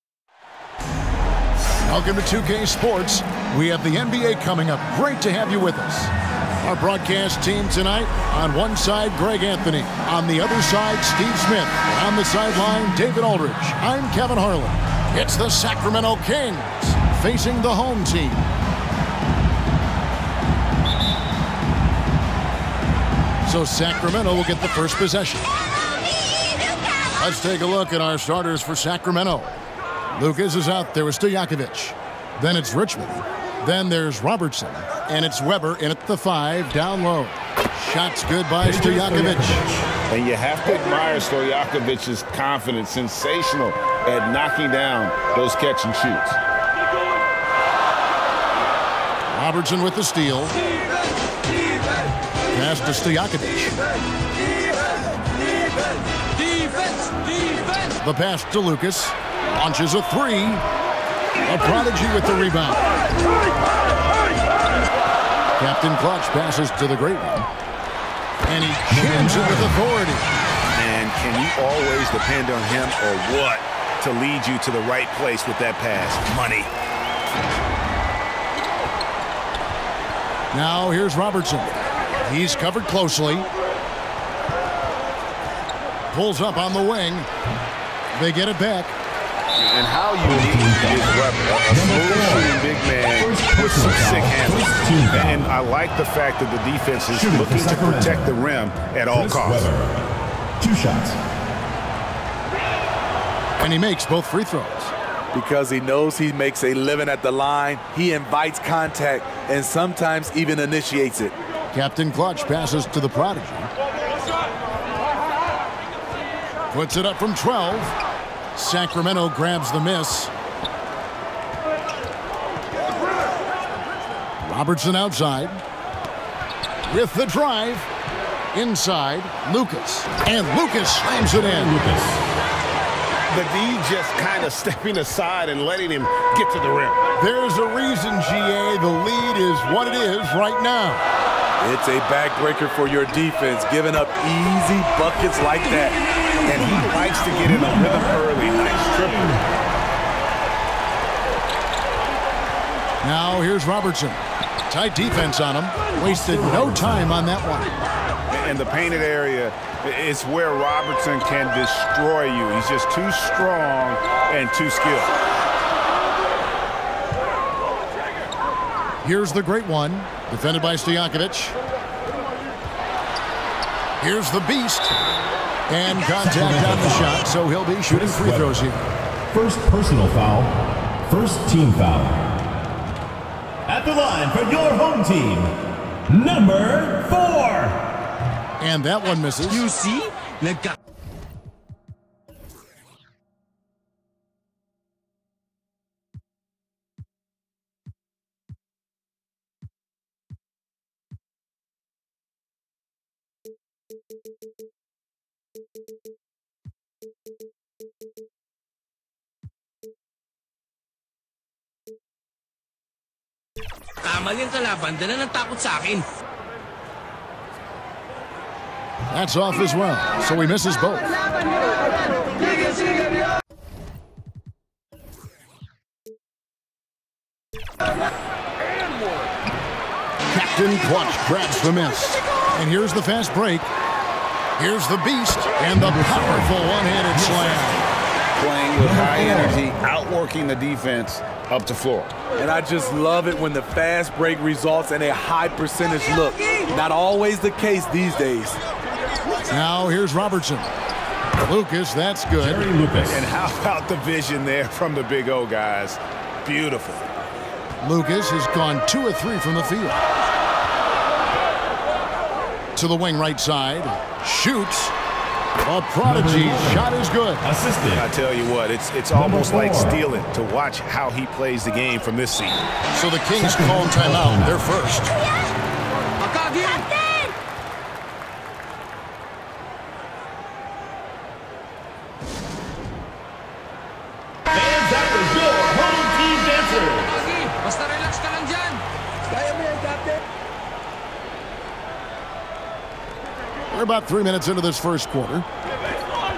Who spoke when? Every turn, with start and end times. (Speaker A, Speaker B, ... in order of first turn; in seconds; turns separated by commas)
Speaker A: 1.9-18.4, Speaker A: 23.4-25.6, Speaker A: 27.1-29.6, Speaker A: 30.1-39.6, Speaker B: 38.6-39.9, Speaker C: 40.1-46.4, Speaker A: 49.3-50.5, Speaker A: 52.5-53.7, Speaker A: 58.0-60.6, Speaker A: 61.4-62.8, Speaker A: 65.6-67.5, Speaker A: 68.4-70.3, Speaker B: 68.9-69.8, Speaker C: 70.8-76.7, Speaker A: 80.5-83.5, Speaker A: 86.1-87.3, Speaker A: 88.1-88.9, Speaker C: 89.6-99.7, Speaker B: 90.2-92.6, Speaker B: 93.1-95.5, Speaker B: 97.1-98.3, Speaker B: 99.1-100.0, Speaker B: 100.6-101.2, Speaker A: 103.6-104.9, Speaker D: 105.3-111.3, Speaker A: 111.7-113.7, Speaker A: 116.7-117.9, Speaker A: 118.5-120.3, Speaker A: 124.4-125.6, Speaker A: 126.8-127.9, Speaker A: 128.5-131.8, Speaker B: 131.1-132.2, Speaker C: 133.3-137.0, Speaker A: 137.2-141.0, Speaker D: 141.6-146.0, Speaker C: 146.4-149.3, Speaker B: 146.4-149.4, Speaker A: 153.0-157.7, Speaker B: 156.0-157.1, Speaker C: 158.3-165.1, Speaker A: 169.0-171.6, Speaker A: 174.0-174.9, Speaker A: 175.7-178.8, Speaker B: 176.1-177.2, Speaker B: 177.9-178.6, Speaker B: 179.3-182.3, Speaker B: 183.7-185.5, Speaker B: 186.1-187.8, Speaker A: 188.6-189.8, Speaker D: 189.8-190.1, Speaker E: 214.1-216.0, Speaker A: 219.1-221.2, Speaker A: 230.3-233.7, Speaker A: 234.6-237.8, Speaker B: 235.7-237.6, Speaker C: 238.4-242.1, Speaker B: 238.8-239.6, Speaker D: 242.4-248.6, Speaker A: 249.5-250.7, Speaker A: 251.4-252.7, Speaker B: 252.3-253.3, Speaker C: 253.0-257.0, Speaker A: 257.8-260.0, Speaker A: 262.8-264.9, Speaker A: 265.6-267.4, Speaker B: 266.0-266.9, Speaker B: 267.4-268.1, Speaker C: 267.9-272.6, Speaker B: 269.1-270.0, Speaker A: 272.9-275.1, Speaker B: 273.4-274.7, Speaker E: 276.3-277.2, Speaker B: 284.5-287.2, Speaker E: 287.4-288.8, Speaker A: 293.7-295.4